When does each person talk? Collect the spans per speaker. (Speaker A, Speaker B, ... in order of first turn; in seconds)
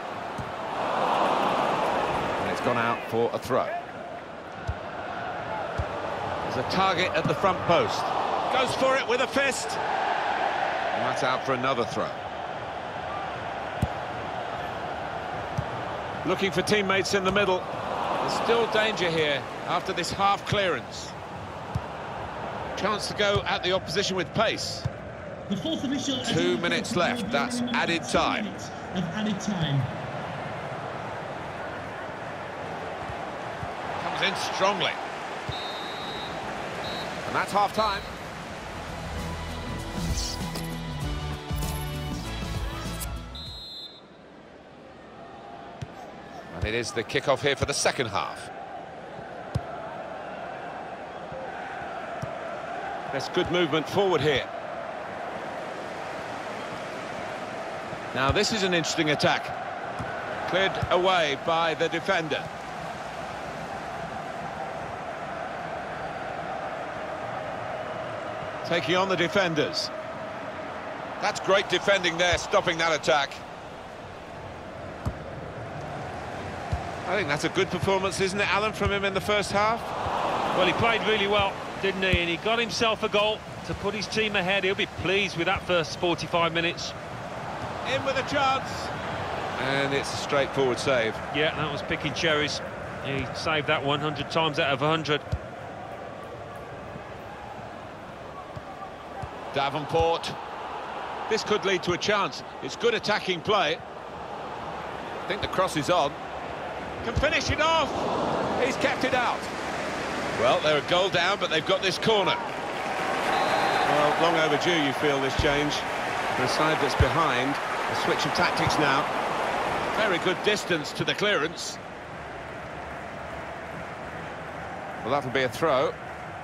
Speaker A: 2.4-3.8, 6.4-9.8, 10.9-12.2, 16.2-17.7, 18.2-21.2, 22.8-24.9, 26.2-28.5, 34.0-35.0, 37.2-38.1, 46.5-48.5, 53.1-54.5, 58.1-59.5, 60.5-62.5, 68.6-69.9, 71.2-73.4, 77.0-79.9, 87.8-88.9, 89.6-91.2, 99.5-100.4, 101.3-103.8, 105.2-106.2, 107.0-109.5, 110.3-112.5, 113.8-119.1, 119.9-121.8, 125.0-126.0
Speaker B: 25.5-29.9
Speaker C: 80.5-87.0, 91.3-95.2